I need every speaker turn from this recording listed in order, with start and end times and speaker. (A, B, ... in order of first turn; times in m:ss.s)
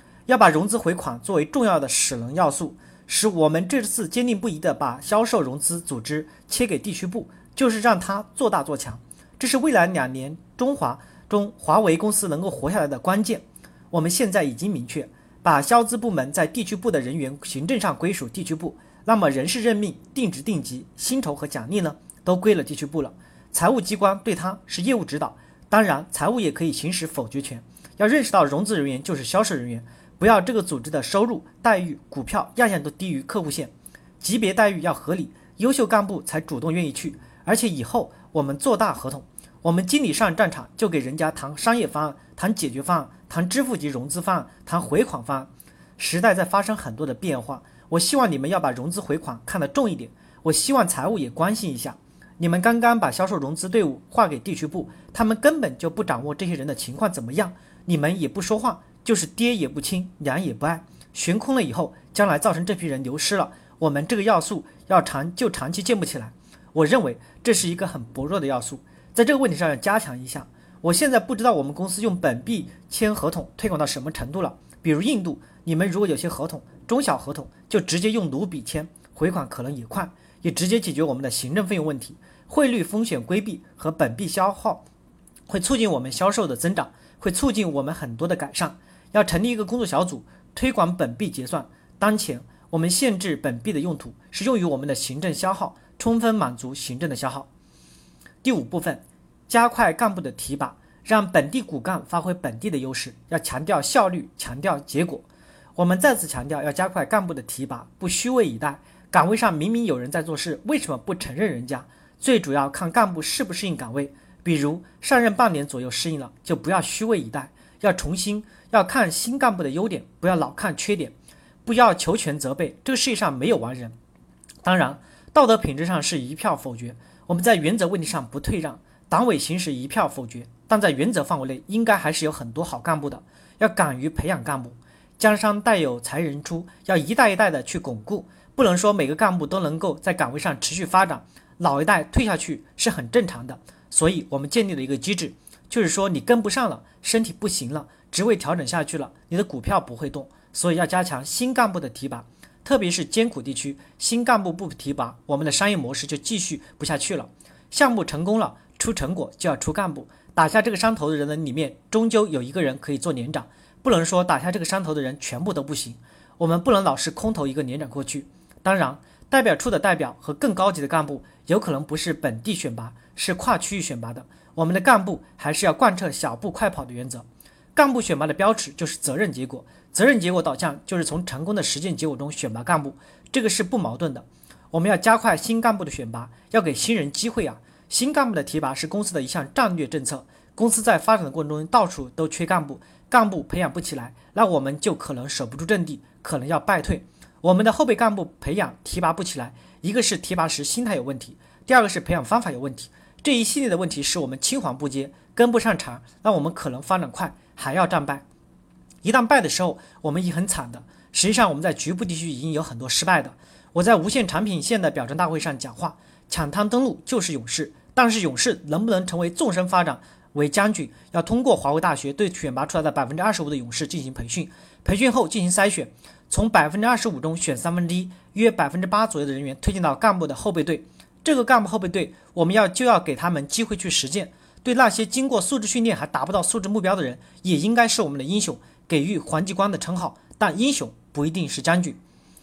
0:00.3-1:24.8 A
1:25.5-1:37.5 A
1:38.4-2:01.1 A
2:01.6-2:04.0 A
2:04.6-2:57.2 A
2:57.8-3:28.2 A
3:29.0-4:02.0 A